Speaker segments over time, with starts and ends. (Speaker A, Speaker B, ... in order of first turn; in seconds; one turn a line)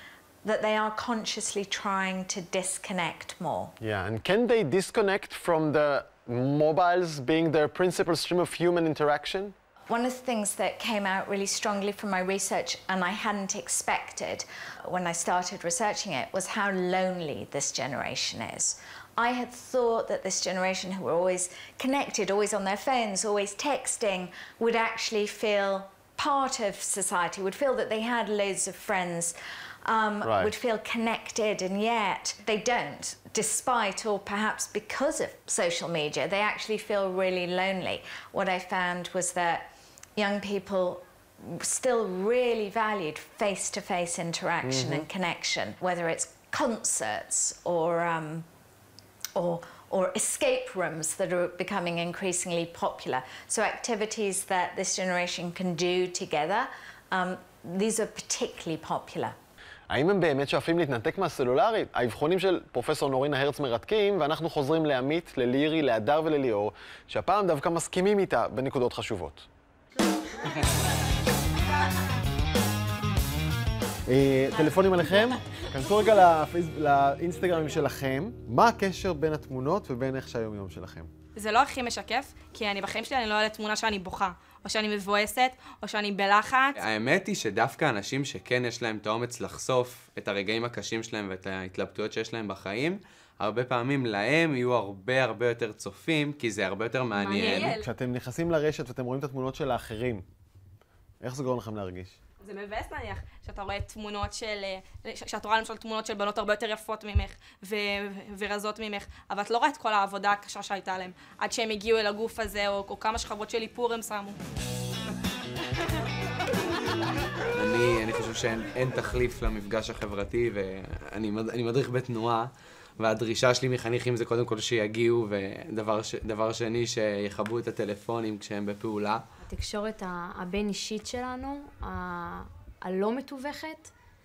Speaker A: 0.4-3.7
Speaker B: 3.8-9.6
Speaker A: 9.9-48.5
Speaker B: 30.2-30.5
Speaker B: 44.6-45.0
Speaker A: 49.4-59.4
Speaker B: 59.9-69.5
Speaker B: 74.1-81.1
Speaker C: 81.4-86.8
Speaker D: 86.8-97.7
Speaker E: 97.2-97.8
Speaker C: 97.3-97.8
Speaker B: 97.7-100.2
Speaker B: 101.2-102.2
Speaker C: 102.4-114.4
Speaker D: 117.5-129.2
Speaker E: 129.4-133.9